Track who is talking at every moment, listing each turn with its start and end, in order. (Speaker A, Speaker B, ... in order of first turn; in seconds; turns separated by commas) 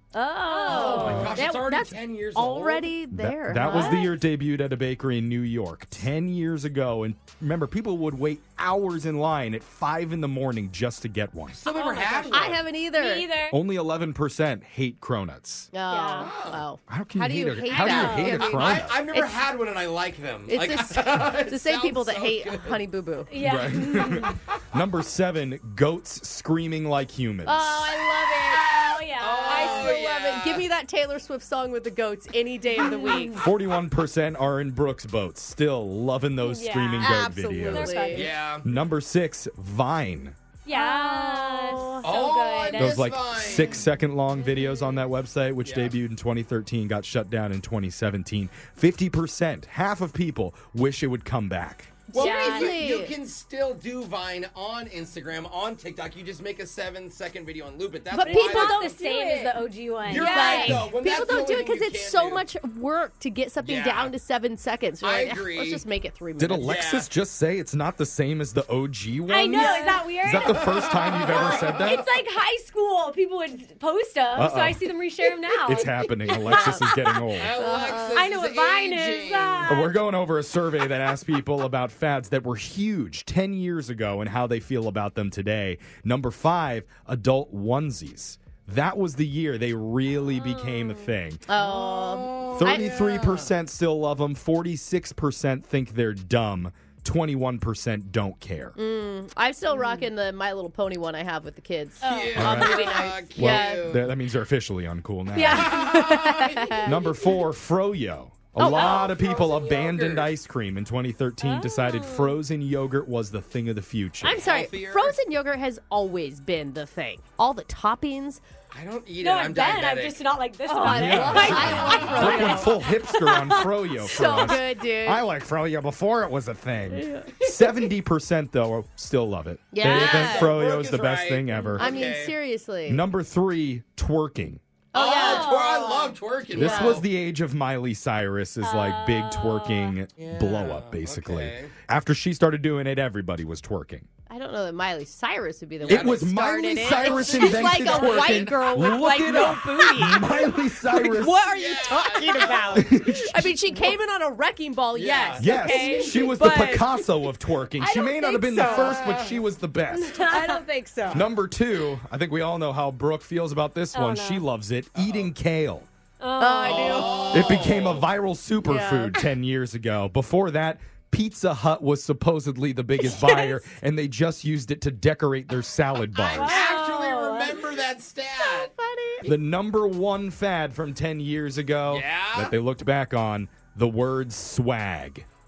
Speaker A: 0.1-4.1, Speaker B: 0.5-1.5, Speaker C: 0.7-2.9, Speaker D: 1.0-1.3, Speaker D: 3.1-11.6, Speaker B: 3.6-4.1, Speaker C: 11.6-12.6, Speaker B: 11.6-13.5, Speaker A: 12.3-13.3, Speaker D: 13.5-15.7, Speaker A: 15.7-19.4, Speaker B: 15.9-16.3, Speaker C: 16.1-16.6, Speaker D: 16.9-19.0, Speaker C: 17.7-22.9, Speaker B: 17.8-18.4, Speaker A: 20.5-23.3, Speaker B: 23.3-24.4, Speaker D: 23.4-27.9, Speaker A: 27.4-28.7, Speaker C: 28.1-30.7, Speaker B: 28.7-30.0, Speaker A: 29.4-33.4, Speaker B: 32.8-33.3, Speaker D: 33.4-38.1, Speaker B: 36.4-38.3, Speaker A: 37.0-38.3, Speaker C: 38.1-38.7, Speaker D: 38.6-40.4, Speaker B: 40.6-43.4, Speaker A: 40.7-42.1, Speaker C: 42.0-43.9, Speaker D: 42.8-51.9, Speaker C: 45.6-46.0, Speaker A: 52.1-53.1, Speaker C: 52.1-59.0, Speaker B: 52.1-52.8, Speaker A: 58.1-66.7, Speaker B: 58.2-60.9, Speaker C: 60.0-62.5, Speaker D: 60.6-60.9, Speaker C: 63.6-64.2, Speaker C: 65.0-65.8, Speaker D: 66.4-72.0, Speaker C: 66.6-67.1, Speaker B: 69.3-77.3, Speaker A: 69.5-70.0, Speaker C: 70.4-72.0, Speaker D: 74.3-74.8, Speaker D: 75.6-77.5, Speaker C: 77.3-79.8, Speaker A: 77.5-78.2, Speaker B: 78.1-79.9, Speaker D: 79.7-91.5, Speaker A: 91.5-92.9, Speaker C: 91.5-93.5, Speaker D: 92.5-98.8, Speaker A: 98.7-103.9, Speaker B: 102.0-103.0, Speaker C: 102.0-104.1, Speaker D: 102.3-102.8, Speaker D: 103.3-105.8, Speaker B: 105.3-106.4, Speaker A: 105.4-107.3, Speaker C: 105.4-106.8, Speaker D: 106.8-114.4, Speaker A: 108.6-109.2, Speaker C: 108.6-110.3, Speaker B: 111.4-112.4, Speaker A: 114.2-118.4, Speaker C: 114.3-115.2, Speaker C: 118.7-120.3, Speaker B: 119.2-123.7, Speaker A: 120.7-122.8, Speaker D: 120.9-131.9, Speaker C: 121.8-122.3, Speaker A: 123.9-125.2, Speaker A: 126.9-127.6, Speaker A: 129.7-130.6, Speaker C: 129.8-132.3, Speaker A: 131.7-133.0, Speaker D: 132.9-134.6, Speaker A: 134.9-137.0, Speaker C: 134.9-137.0, Speaker B: 135.1-135.8, Speaker D: 136.5-144.1, Speaker B: 138.6-140.0, Speaker C: 140.2-141.7, Speaker A: 144.3-157.2, Speaker C: 145.8-146.3, Speaker D: 145.8-151.5, Speaker C: 146.8-148.6, Speaker C: 151.4-152.8, Speaker D: 152.7-153.5, Speaker C: 154.9-156.1, Speaker D: 155.4-160.3, Speaker A: 157.8-159.0, Speaker B: 157.8-158.7, Speaker C: 158.9-159.4, Speaker B: 159.9-160.6, Speaker A: 160.2-161.3, Speaker D: 161.1-165.9, Speaker B: 163.9-164.4, Speaker C: 164.9-165.3, Speaker B: 166.2-167.2, Speaker A: 166.4-167.6, Speaker C: 166.6-168.1, Speaker D: 167.3-176.6, Speaker A: 168.6-169.2, Speaker A: 173.0-173.6, Speaker B: 176.2-177.6, Speaker C: 176.3-178.7, Speaker A: 178.4-179.3, Speaker D: 179.2-185.2, Speaker C: 181.9-182.5